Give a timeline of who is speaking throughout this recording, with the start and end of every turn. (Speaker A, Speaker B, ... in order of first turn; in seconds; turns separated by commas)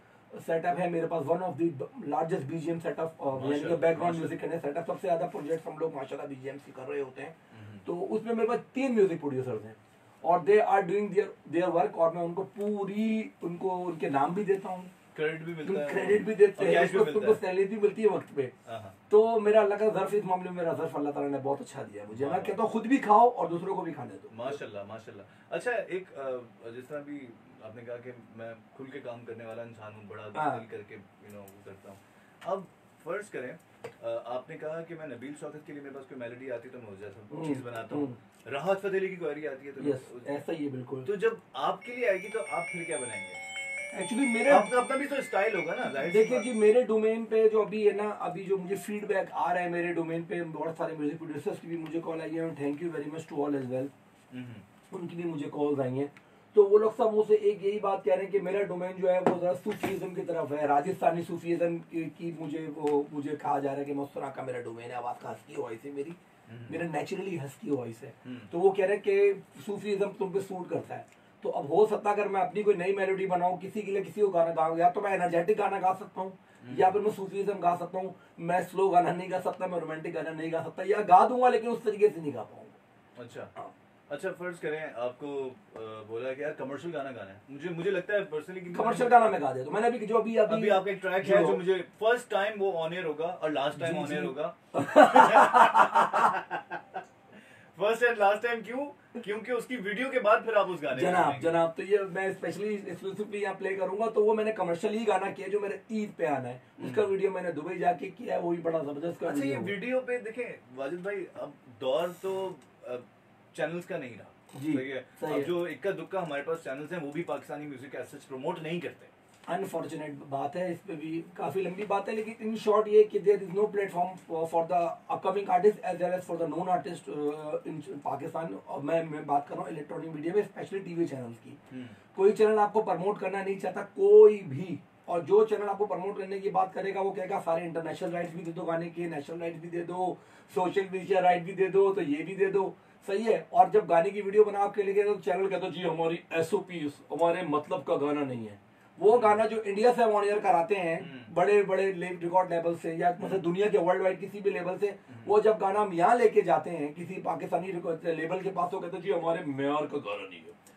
Speaker A: 0.3-14.9, Speaker B: 3.3-4.4, Speaker B: 7.5-7.8, Speaker B: 15.1-17.4, Speaker A: 15.6-18.5, Speaker B: 18.6-19.0, Speaker A: 19.1-24.6, Speaker B: 22.1-22.6, Speaker B: 24.3-40.4, Speaker A: 30.3-30.6, Speaker A: 37.3-38.2, Speaker A: 39.8-41.1, Speaker B: 41.0-43.4, Speaker A: 43.9-44.7, Speaker B: 44.5-46.5, Speaker A: 46.0-53.9, Speaker B: 54.3-54.7, Speaker A: 54.9-82.8, Speaker B: 66.5-66.9, Speaker B: 68.2-68.5, Speaker B: 76.6-77.0, Speaker B: 83.2-83.5, Speaker B: 84.1-89.3, Speaker A: 88.7-91.6, Speaker B: 90.5-97.0, Speaker A: 93.8-96.3, Speaker B: 97.8-101.6, Speaker A: 100.9-109.8, Speaker B: 106.8-107.1, Speaker B: 109.2-119.1, Speaker A: 114.5-115.5, Speaker A: 119.5-131.6, Speaker B: 131.7-132.0, Speaker A: 132.1-160.6, Speaker B: 149.1-149.4, Speaker B: 151.0-151.3, Speaker B: 153.2-153.4, Speaker B: 155.1-155.3